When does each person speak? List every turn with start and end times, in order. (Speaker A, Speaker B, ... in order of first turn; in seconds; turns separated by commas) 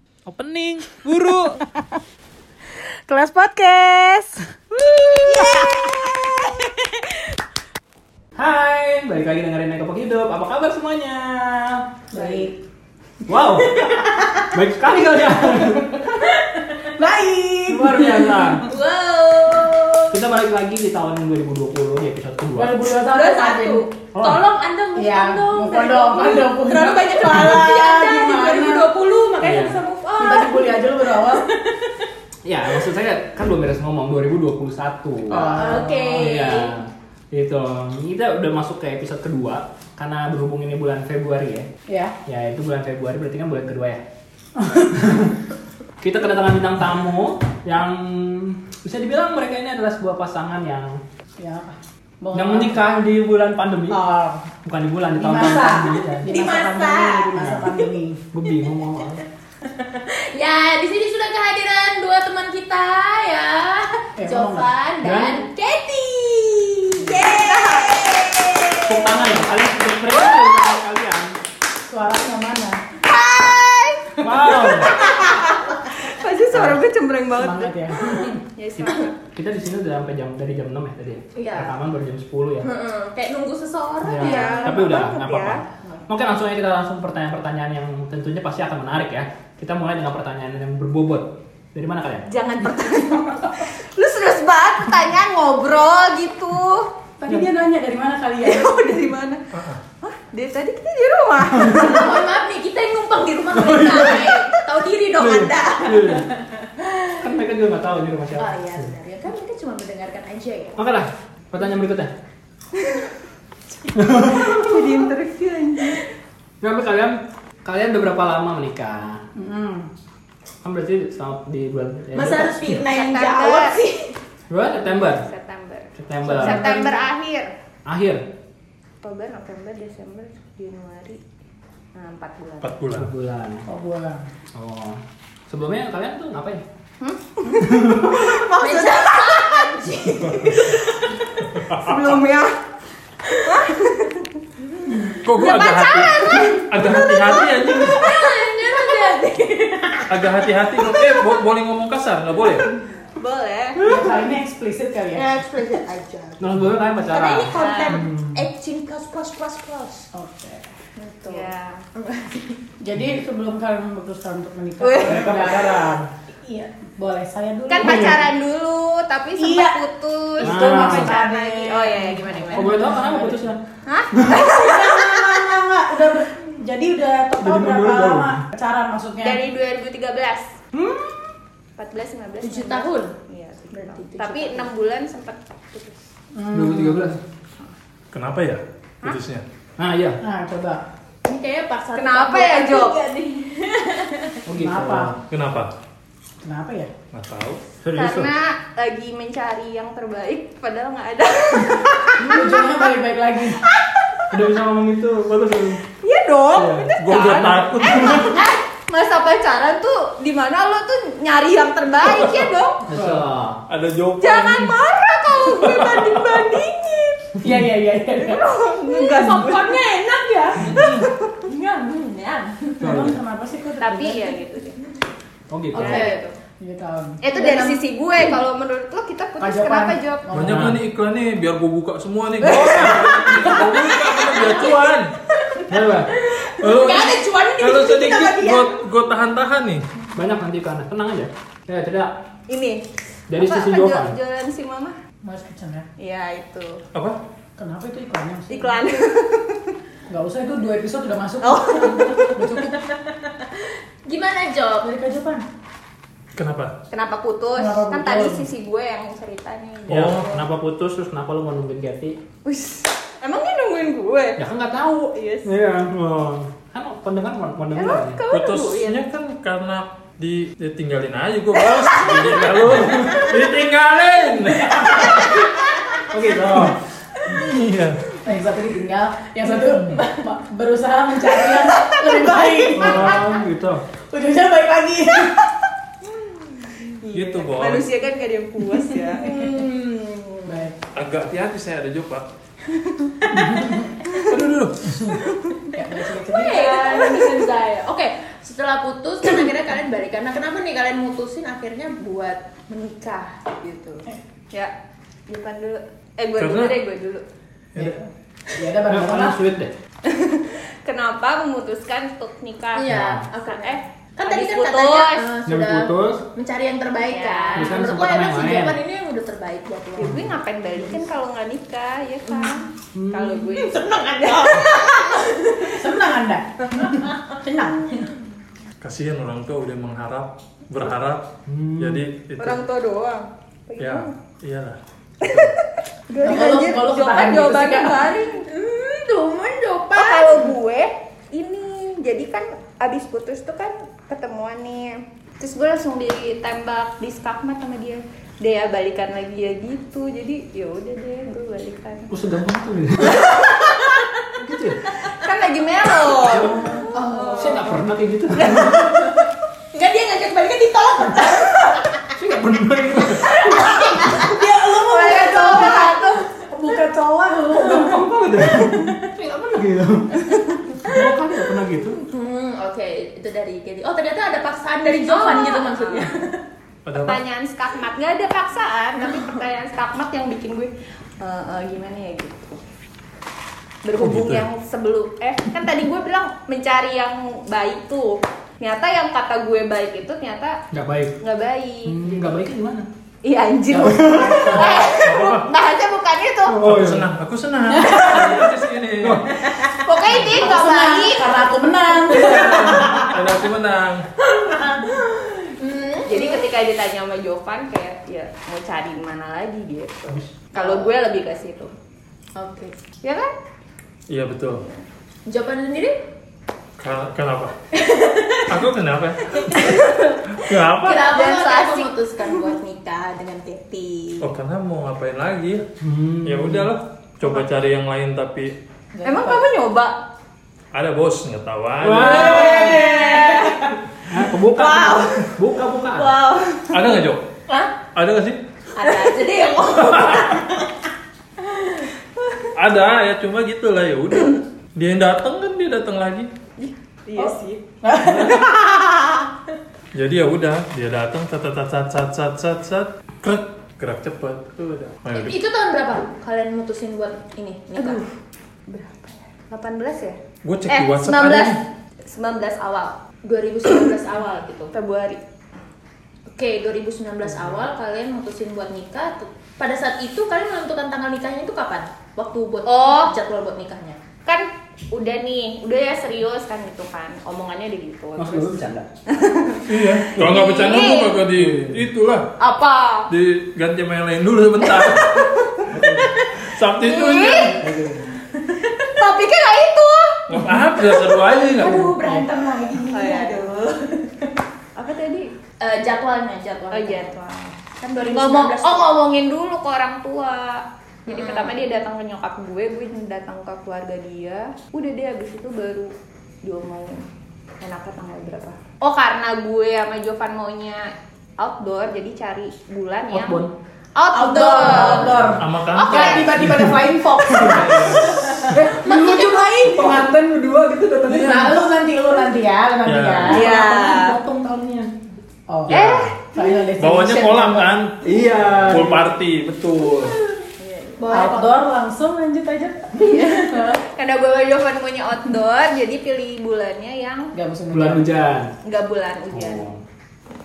Speaker A: 0.3-1.6, Speaker B: 3.1-4.3, Speaker C: 3.7-4.1, Speaker C: 5.2-6.4, Speaker B: 5.3-6.3, Speaker A: 8.4-11.8, Speaker B: 12.1-12.5, Speaker C: 12.1-12.5, Speaker A: 13.3-13.8, Speaker B: 13.8-14.4, Speaker C: 13.8-14.4, Speaker A: 14.5-16.0, Speaker C: 16.8-20.2, Speaker A: 17.7-18.7, Speaker B: 17.8-18.4, Speaker A: 20.1-22.8, Speaker B: 22.5-23.8, Speaker D: 23.0-23.8, Speaker C: 23.2-32.0, Speaker A: 24.1-24.4, Speaker B: 24.9-28.9, Speaker A: 29.4-29.8, Speaker B: 30.2-31.4, Speaker A: 32.5-35.5, Speaker C: 35.3-36.8, Speaker B: 35.3-36.2, Speaker A: 36.1-41.7, Speaker B: 41.9-42.1, Speaker A: 42.2-44.0, Speaker B: 44.5-45.0, Speaker A: 44.9-45.4, Speaker A: 46.0-51.0, Speaker B: 51.4-52.8, Speaker A: 52.3-54.0, Speaker B: 53.9-54.5, Speaker A: 54.6-56.3, Speaker B: 55.2-58.2, Speaker C: 56.2-57.9, Speaker A: 57.4-57.7, Speaker A: 58.3-59.2, Speaker C: 58.5-59.2, Speaker C: 59.7-68.9, Speaker B: 64.2-64.7, Speaker A: 65.0-65.4, Speaker D: 67.1-68.8, Speaker A: 68.8-71.4, Speaker B: 71.9-72.8, Speaker D: 73.0-77.8, Speaker A: 74.2-75.0, Speaker B: 77.3-78.4, Speaker D: 78.5-79.2, Speaker A: 79.3-82.7, Speaker C: 81.3-81.8, Speaker C: 82.6-85.0, Speaker A: 84.0-92.3, Speaker D: 84.1-85.6, Speaker D: 92.3-96.9, Speaker B: 97.2-98.8, Speaker D: 98.4-99.4, Speaker E: 99.5-99.8, Speaker D: 100.0-102.2, Speaker A: 101.6-101.9, Speaker C: 101.7-107.2, Speaker A: 103.5-104.2, Speaker A: 105.2-106.3, Speaker A: 107.2-108.9, Speaker C: 108.4-110.8, Speaker A: 110.8-112.1, Speaker A: 113.9-114.6, Speaker C: 114.0-115.0, Speaker D: 114.3-116.0, Speaker A: 116.6-119.2, Speaker B: 119.4-119.9, Speaker A: 120.6-122.8, Speaker C: 122.1-124.1, Speaker D: 122.9-123.8, Speaker A: 124.5-125.3, Speaker D: 124.8-127.5, Speaker A: 125.9-126.8, Speaker C: 126.3-126.8, Speaker A: 127.9-128.2, Speaker D: 129.0-131.2, Speaker D: 131.9-132.7, Speaker E: 132.6-133.1, Speaker A: 133.0-133.7, Speaker B: 133.7-134.2, Speaker A: 134.6-136.6, Speaker D: 137.0-139.7, Speaker A: 137.6-138.3, Speaker C: 138.3-141.2, Speaker E: 140.3-140.6, Speaker E: 141.5-142.2, Speaker D: 141.7-142.6, Speaker C: 143.3-143.6, Speaker D: 143.4-144.3, Speaker E: 145.2-148.0, Speaker D: 145.3-148.8, Speaker C: 147.8-151.1, Speaker E: 150.1-152.7, Speaker D: 153.1-153.8, Speaker A: 153.8-154.2, Speaker B: 153.8-155.3, Speaker C: 155.2-160.1, Speaker A: 156.4-158.5, Speaker D: 157.5-158.0, Speaker B: 160.1-160.7, Speaker C: 161.0-162.6, Speaker D: 161.2-161.8, Speaker B: 162.8-168.3, Speaker D: 164.8-165.8, Speaker C: 164.8-165.1, Speaker A: 165.1-165.4, Speaker D: 167.7-172.9, Speaker A: 167.8-168.2, Speaker B: 169.4-169.8, Speaker B: 170.4-173.5, Speaker A: 170.4-171.1, Speaker A: 172.5-173.6, Speaker D: 173.9-175.4, Speaker A: 174.1-174.5, Speaker B: 174.5-179.4, Speaker A: 177.4-178.4, Speaker D: 179.2-180.5, Speaker A: 180.7-181.1, Speaker D: 181.8-186.1, Speaker C: 182.4-183.1, Speaker C: 183.7-184.7, Speaker B: 186.3-187.2, Speaker A: 186.5-187.2, Speaker E: 188.1-189.4, Speaker A: 189.8-190.2, Speaker B: 190.2-190.8, Speaker C: 191.2-194.4, Speaker D: 191.9-193.0, Speaker A: 194.5-195.2, Speaker B: 194.6-195.1, Speaker E: 195.3-195.7, Speaker B: 196.4-196.9, Speaker E: 197.1-197.6, Speaker A: 197.8-198.3, Speaker D: 197.9-202.9, Speaker B: 202.2-203.6, Speaker D: 203.6-204.3, Speaker A: 204.3-205.8, Speaker D: 206.0-212.9, Speaker A: 206.5-208.3, Speaker E: 207.0-208.4, Speaker E: 212.0-212.5, Speaker A: 212.9-213.6, Speaker E: 213.7-214.8, Speaker D: 214.2-217.4, Speaker E: 215.5-216.5, Speaker B: 217.4-218.4, Speaker D: 218.2-219.8, Speaker C: 218.9-223.0, Speaker E: 220.7-221.1, Speaker A: 222.8-223.2, Speaker B: 222.8-224.4, Speaker D: 223.8-224.8, Speaker A: 225.5-226.1, Speaker D: 225.7-226.3, Speaker C: 225.8-226.2, Speaker B: 226.6-227.2, Speaker D: 227.2-230.3, Speaker C: 227.3-227.8, Speaker B: 229.4-230.8, Speaker E: 230.3-235.1, Speaker A: 230.4-230.8, Speaker D: 232.4-234.7, Speaker A: 232.5-233.6, Speaker C: 233.1-234.7, Speaker C: 235.5-238.7, Speaker A: 235.7-236.1, Speaker E: 236.6-239.9, Speaker A: 240.2-242.1, Speaker D: 242.5-245.0, Speaker A: 243.3-244.2, Speaker B: 245.2-245.9, Speaker D: 246.0-246.8, Speaker E: 246.9-247.2, Speaker B: 247.6-248.8, Speaker D: 248.5-249.7, Speaker B: 250.1-252.8, Speaker D: 251.4-252.4, Speaker C: 254.1-254.9, Speaker B: 254.8-255.4, Speaker E: 256.4-256.8, Speaker D: 256.9-260.4, Speaker B: 257.6-258.4, Speaker A: 259.9-262.2, Speaker E: 259.9-260.3, Speaker D: 262.4-264.4, Speaker A: 264.4-268.2, Speaker D: 265.1-265.5, Speaker D: 267.7-269.0, Speaker E: 268.3-275.1, Speaker D: 271.6-273.2, Speaker A: 272.8-273.2, Speaker C: 275.0-275.3, Speaker A: 276.1-276.8, Speaker E: 276.5-276.8, Speaker E: 277.3-278.0, Speaker B: 278.2-283.4, Speaker C: 282.2-282.6, Speaker A: 282.7-283.8, Speaker E: 282.9-283.2, Speaker B: 284.1-285.4, Speaker D: 286.8-290.7, Speaker E: 287.1-287.9, Speaker C: 289.3-290.1, Speaker B: 290.4-290.8, Speaker E: 290.9-292.3, Speaker D: 292.8-293.1, Speaker C: 293.2-293.8, Speaker B: 293.3-293.9, Speaker E: 294.3-295.1, Speaker B: 294.8-295.2, Speaker B: 295.7-296.8, Speaker C: 296.3-304.1, Speaker D: 296.4-297.5, Speaker D: 305.3-307.2, Speaker E: 306.4-306.8, Speaker B: 307.8-309.4, Speaker A: 308.9-309.7, Speaker D: 310.0-312.9, Speaker C: 312.8-320.3, Speaker A: 312.9-313.2, Speaker D: 313.4-315.3, Speaker A: 315.4-316.2, Speaker D: 317.1-317.8, Speaker A: 317.5-318.8, Speaker D: 320.0-324.9, Speaker A: 320.0-320.4, Speaker A: 322.9-323.5, Speaker C: 323.6-325.8, Speaker B: 325.8-328.1, Speaker E: 328.8-332.6, Speaker A: 331.5-332.0, Speaker D: 332.4-334.1, Speaker E: 333.8-334.8, Speaker D: 335.2-338.4, Speaker B: 336.2-338.1, Speaker C: 336.2-336.5, Speaker C: 338.4-340.5, Speaker D: 339.9-352.1, Speaker A: 352.1-353.3, Speaker D: 353.2-353.8, Speaker C: 353.6-353.9, Speaker A: 354.3-354.9, Speaker D: 355.0-357.7, Speaker A: 356.2-358.9, Speaker C: 356.9-357.8, Speaker C: 358.3-361.9, Speaker A: 362.1-363.4, Speaker C: 363.0-366.1, Speaker B: 364.1-365.9, Speaker D: 364.6-366.2, Speaker B: 366.5-368.0, Speaker A: 367.5-372.0, Speaker B: 368.6-369.0, Speaker C: 371.9-376.4, Speaker D: 374.9-376.1, Speaker E: 376.9-377.2, Speaker D: 376.9-382.6, Speaker C: 379.0-379.4, Speaker D: 383.8-390.6, Speaker E: 384.0-384.5, Speaker A: 390.7-391.2, Speaker D: 391.2-392.3, Speaker A: 391.8-392.9, Speaker D: 393.2-396.7, Speaker B: 393.7-394.9, Speaker A: 393.8-394.7, Speaker E: 395.0-395.5, Speaker A: 396.5-397.1, Speaker E: 396.6-399.3, Speaker B: 397.7-398.5, Speaker A: 399.0-399.3, Speaker C: 399.5-399.8, Speaker D: 399.7-401.5, Speaker E: 400.1-400.4, Speaker B: 400.2-403.1, Speaker E: 402.2-404.0, Speaker A: 402.4-402.8, Speaker C: 404.4-406.4, Speaker D: 406.1-411.7, Speaker C: 410.6-410.9, Speaker C: 412.4-412.7, Speaker D: 413.0-413.3, Speaker E: 414.1-414.6, Speaker D: 414.5-414.8, Speaker C: 415.3-415.9, Speaker E: 416.8-417.6, Speaker C: 417.7-418.5, Speaker E: 418.5-419.6, Speaker C: 419.4-419.9, Speaker D: 419.4-420.1, Speaker E: 420.4-421.1, Speaker C: 420.8-424.1, Speaker D: 421.1-422.5, Speaker E: 424.2-425.6, Speaker A: 425.8-426.7, Speaker E: 426.2-428.5, Speaker B: 428.9-429.4, Speaker D: 429.0-430.0, Speaker E: 430.7-432.6, Speaker A: 431.8-433.0, Speaker D: 432.0-433.7, Speaker C: 432.4-433.6, Speaker A: 434.1-436.2, Speaker D: 434.5-435.3, Speaker D: 435.9-436.8, Speaker E: 436.7-437.2, Speaker E: 437.9-438.4, Speaker C: 438.8-440.7, Speaker E: 439.8-440.4, Speaker E: 442.5-446.3, Speaker D: 446.6-448.3, Speaker B: 447.2-448.5, Speaker E: 449.9-455.4, Speaker C: 455.1-458.0, Speaker D: 457.8-458.1, Speaker D: 458.7-460.2, Speaker E: 460.4-461.6, Speaker D: 460.7-463.0, Speaker C: 463.2-464.7, Speaker D: 464.7-465.2, Speaker C: 466.3-474.0, Speaker D: 472.6-473.1, Speaker D: 474.2-478.5, Speaker A: 478.2-478.9, Speaker D: 479.1-481.2, Speaker E: 479.7-482.3, Speaker A: 481.4-481.8, Speaker D: 482.4-483.1, Speaker E: 483.1-485.3, Speaker D: 484.6-485.6, Speaker A: 485.7-486.1, Speaker E: 486.4-487.6, Speaker D: 486.8-487.6, Speaker A: 487.6-488.1, Speaker C: 488.4-488.9, Speaker D: 488.9-490.2, Speaker E: 490.3-492.2, Speaker C: 491.1-494.3, Speaker D: 492.9-493.5, Speaker D: 494.8-495.3, Speaker C: 495.6-497.1, Speaker D: 496.7-505.9, Speaker C: 497.8-499.0, Speaker C: 501.1-501.6, Speaker D: 506.4-507.0, Speaker D: 507.6-513.4, Speaker A: 513.1-513.5, Speaker D: 514.0-516.4, Speaker B: 514.1-518.8, Speaker E: 514.7-516.5, Speaker A: 514.7-515.3, Speaker A: 516.4-516.8, Speaker A: 517.3-521.8, Speaker E: 517.5-518.1, Speaker C: 518.8-520.0, Speaker B: 519.8-520.1, Speaker B: 521.1-523.5, Speaker E: 522.8-523.5, Speaker D: 523.3-524.2, Speaker A: 523.4-524.9, Speaker B: 525.5-527.7, Speaker E: 525.7-526.2, Speaker D: 525.7-526.2, Speaker E: 526.8-530.2, Speaker A: 528.0-529.1, Speaker D: 530.0-531.3, Speaker C: 531.0-531.6, Speaker B: 531.1-533.8, Speaker D: 533.0-537.3, Speaker B: 537.3-538.2, Speaker A: 537.7-538.5, Speaker D: 538.6-539.7, Speaker A: 539.3-539.8